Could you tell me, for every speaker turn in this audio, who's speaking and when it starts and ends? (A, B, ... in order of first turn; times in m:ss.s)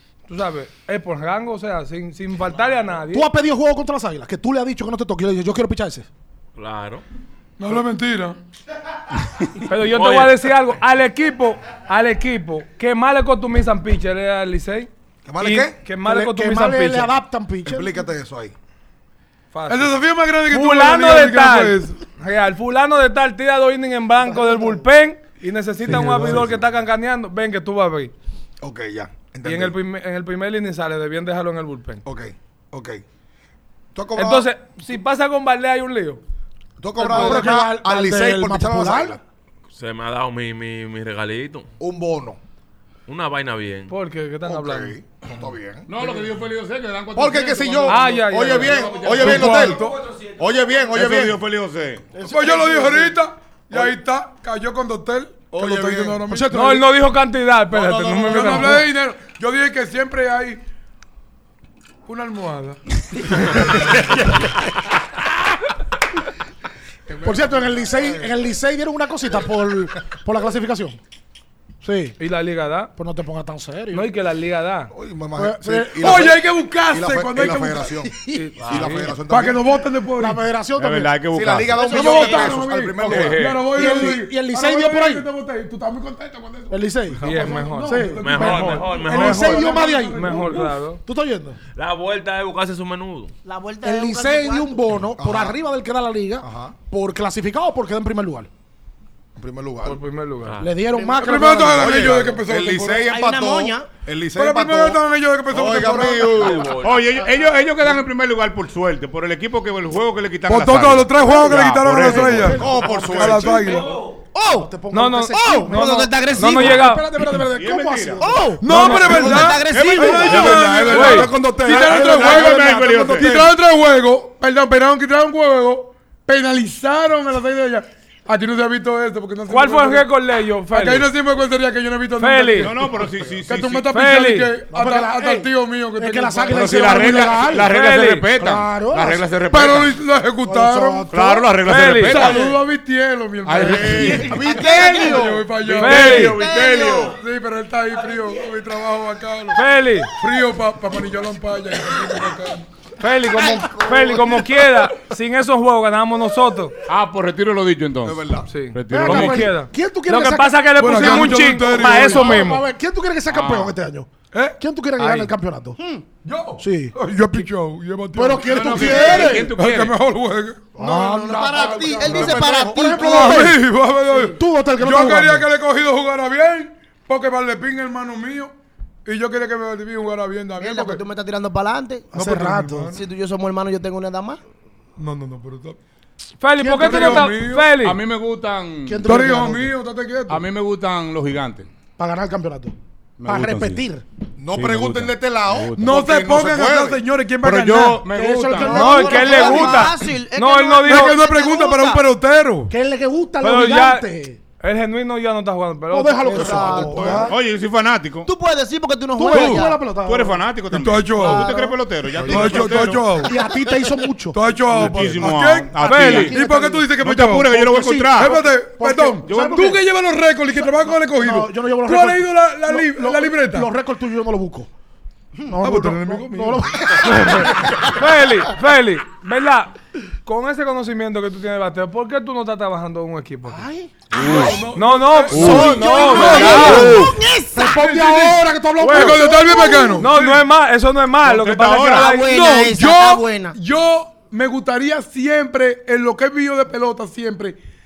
0:00.3-0:03.3 A
0:03.1-0:06.1 B
0:06.6-0:07.0 C
0:07.6-0:08.4 D
0:09.6-0:17.1 A
0:09.8-0:10.4 C
0:15.2-0:15.8 E
0:16.0-0:18.0 B
0:17.6-0:18.5 E
0:19.5-0:28.1 A
0:19.7-0:22.0 D
0:24.2-0:24.8 B
0:25.9-0:26.5 B
0:26.0-0:26.5 F
0:28.6-0:29.8 E
0:29.4-0:32.0 A
0:32.0-0:33.0 E
0:33.9-0:34.5 E
0:34.1-0:36.2 A
0:36.8-0:39.2 E
0:37.0-0:37.5 A
0:37.0-0:39.2 B
0:39.7-0:41.7 C
0:41.8-0:42.4 E
0:43.1-0:43.9 C
0:43.9-0:44.9 A
0:44.4-0:45.9 E
0:45.9-0:49.7 F
0:47.1-0:51.4 E
0:47.9-0:49.6 A
0:49.0-0:50.1 D
0:50.9-0:52.0 F
0:52.2-0:53.1 B
0:52.2-0:56.5 D
0:52.5-0:52.9 G
0:55.5-0:56.2 E
0:56.3-0:57.0 B
0:56.5-0:58.8 A
0:57.7-0:58.8 E
0:58.2-1:00.6 D
1:02.0-1:03.7 D
1:07.1-1:08.3 E
1:07.2-1:11.0 B
1:11.8-1:12.2 B
1:12.2-1:12.9 A
1:13.0-1:14.1 B
1:13.9-1:14.9 A
1:14.9-1:19.8 E
1:15.3-1:16.4 B
1:16.0-1:17.9 D
1:18.2-1:18.5 B
1:18.3-1:19.1 A
1:18.6-1:19.0 C
1:19.3-1:20.4 D
1:20.2-1:21.2 B
1:20.8-1:21.8 F
1:21.3-1:24.1 E
1:21.7-1:22.6 G
1:21.9-1:30.7 D
1:21.9-1:22.4 B
1:23.7-1:25.3 B
1:26.7-1:31.6 B
1:27.2-1:28.2 A
1:28.1-1:29.8 C
1:30.0-1:31.0 A
1:31.7-1:33.3 C
1:33.4-1:34.8 G
1:33.8-1:38.5 B
1:35.2-1:35.6 E
1:36.4-1:36.7 E
1:39.4-1:40.0 E
1:39.8-1:40.5 A
1:40.4-1:40.8 C
1:40.6-1:42.2 B
1:40.9-1:41.4 G
1:41.2-1:43.1 D
1:41.5-1:46.7 E
1:43.0-1:43.9 G
1:44.4-1:46.6 D
1:46.3-1:47.1 C
1:46.8-1:52.7 F
1:50.5-1:54.0 D
1:52.0-1:53.8 B
1:52.5-1:53.9 E
1:54.3-1:54.7 G
1:54.5-1:59.5 B
1:54.9-1:57.0 A
1:55.3-1:57.0 G
1:57.3-1:58.4 F
1:58.2-2:00.6 G
1:58.6-2:10.1 D
1:58.6-1:59.4 A
1:59.6-2:03.5 F
2:00.4-2:03.5 B
2:00.7-2:01.3 A
2:09.5-2:11.1 A
2:10.7-2:12.9 D
2:12.2-2:12.7 A
2:12.6-2:13.8 F
2:13.4-2:16.8 D
2:13.9-2:14.5 A
2:14.7-2:17.7 B
2:16.5-2:19.9 F
2:17.7-2:18.2 A
2:18.3-2:19.3 B
2:19.5-2:21.0 D
2:20.4-2:21.5 B
2:21.1-2:22.5 F
2:21.6-2:22.3 A
2:22.0-2:26.5 D
2:22.1-2:22.6 B
2:23.4-2:24.6 F
2:23.9-2:25.6 G
2:24.1-2:25.3 E
2:25.6-2:27.2 F
2:25.7-2:26.4 A
2:26.1-2:27.2 G
2:27.1-2:32.7 D
2:29.5-2:30.1 A
2:33.0-2:36.7 A
2:33.9-2:34.4 E
2:36.8-2:39.5 F
2:38.0-2:38.5 E
2:38.5-2:42.6 A
2:38.9-2:45.8 B
2:40.8-2:42.4 D
2:43.3-2:43.7 F
2:44.3-2:44.6 D
2:45.8-2:46.0 G
2:46.2-2:50.7 D
2:46.6-2:47.4 B
2:48.1-2:49.6 B
2:48.4-2:50.0 F
2:48.8-2:49.4 G
2:50.7-2:55.5 B
2:50.8-2:53.5 G
2:51.5-2:53.5 E
2:52.0-2:52.3 D
2:52.9-2:58.5 D
2:59.0-3:01.0 D
3:00.6-3:02.1 G
3:02.1-3:02.9 B
3:02.1-3:03.0 D
3:02.9-3:04.4 G
3:05.0-3:05.8 D
3:06.4-3:08.0 A
3:06.6-3:07.3 B
3:06.7-3:07.7 D
3:07.8-3:09.2 F
3:08.8-3:09.7 B
3:09.0-3:10.4 D
3:10.3-3:11.7 F
3:12.0-3:14.0 B
3:13.2-3:13.8 F
3:14.4-3:17.0 E
3:14.5-3:16.4 F
3:15.8-3:18.1 D
3:17.4-3:19.4 F
3:18.0-3:19.8 B
3:18.5-3:22.1 G
3:18.7-3:21.2 A
3:20.9-3:22.7 D
3:22.7-3:24.4 B
3:23.4-3:24.1 A
3:24.6-3:27.0 A
3:25.9-3:27.4 B
3:26.3-3:27.3 E
3:26.4-3:27.3 G
3:27.1-3:28.3 F
3:28.2-3:29.8 G
3:29.2-3:30.4 B
3:29.3-3:29.6 D
3:29.9-3:33.3 F
3:30.7-3:31.5 D
3:31.2-3:39.8 B
3:31.2-3:31.5 G
3:32.2-3:33.4 D
3:34.3-3:37.6 D
3:34.7-3:36.4 F
3:35.8-3:36.3 A
3:37.0-3:38.4 F
3:38.1-3:43.7 D
3:39.2-3:39.8 F
3:40.6-3:44.7 B
3:45.4-3:47.5 B
3:45.6-3:47.0 D
3:47.0-3:53.6 A
3:53.5-3:54.5 G
3:54.1-3:54.6 F
3:54.1-3:57.0 D
3:54.7-3:57.0 A
3:55.3-3:57.2 F
3:55.3-3:57.7 G
3:55.3-4:00.0 B
3:57.6-4:00.4 D
3:58.8-3:59.2 A
3:59.2-4:00.0 G
4:00.0-4:02.2 A
4:01.2-4:02.1 F
4:01.7-4:03.6 G
4:02.1-4:07.6 D